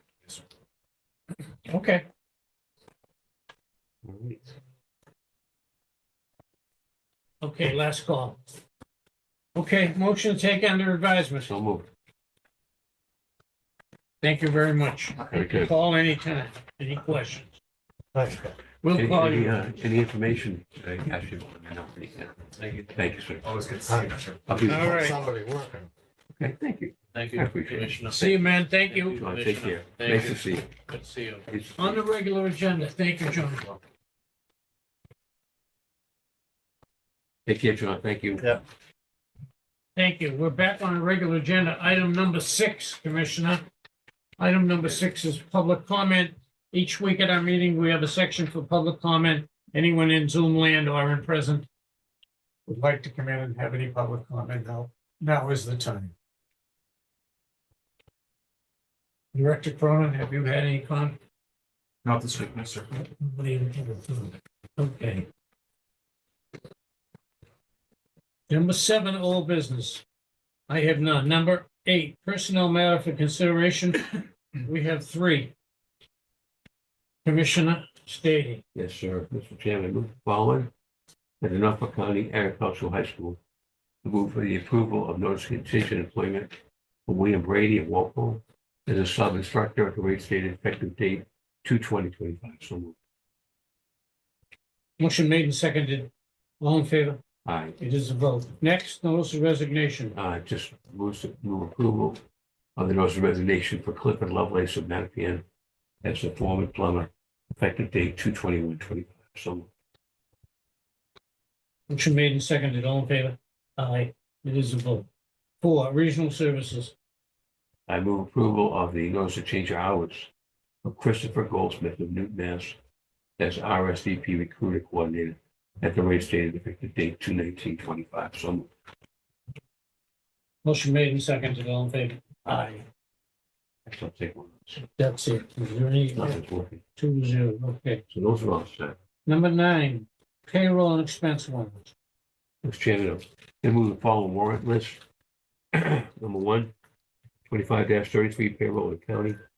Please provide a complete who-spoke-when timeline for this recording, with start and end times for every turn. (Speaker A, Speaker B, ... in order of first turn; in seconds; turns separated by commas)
Speaker A: 1.7-2.0, Speaker B: 4.0-4.4, Speaker A: 7.4-8.4, Speaker A: 9.6-11.5, Speaker B: 11.5-11.9, Speaker A: 14.2-17.6, Speaker B: 15.3-15.7, Speaker C: 18.1-18.5, Speaker A: 18.8-19.6, Speaker B: 18.9-23.4, Speaker D: 23.4-24.6, Speaker C: 23.9-25.9, Speaker B: 24.5-25.0, Speaker A: 24.7-25.2, Speaker B: 26.4-30.7, Speaker E: 27.1-28.1, Speaker A: 28.1-29.2, Speaker E: 29.2-31.4, Speaker B: 31.5-32.0, Speaker A: 31.8-33.8, Speaker B: 37.5-38.6, Speaker A: 40.0-43.6, Speaker A: 44.4-51.7, Speaker A: 52.7-56.1, Speaker A: 59.3-61.2, Speaker D: 62.0-62.9, Speaker A: 62.9-65.3, Speaker A: 68.5-70.0, Speaker A: 70.7-75.5, Speaker A: 77.2-78.6, Speaker B: 78.7-80.7, Speaker B: 81.4-83.4, Speaker B: 84.0-93.0, Speaker A: 95.0-97.2, Speaker B: 97.5-97.8, Speaker A: 97.8-100.2, Speaker B: 100.2-102.2, Speaker B: 102.8-105.5, Speaker B: 106.0-109.7, Speaker A: 111.9-115.1, Speaker A: 115.6-117.0, Speaker B: 117.9-120.3, Speaker B: 120.8-122.8, Speaker B: 123.4-128.7, Speaker A: 130.6-132.8, Speaker B: 133.9-134.8, Speaker A: 134.8-136.4, Speaker B: 136.2-136.8, Speaker A: 136.9-138.0, Speaker B: 138.1-139.0, Speaker A: 139.3-141.9, Speaker B: 142.6-145.0, Speaker B: 145.7-146.7, Speaker B: 147.5-149.4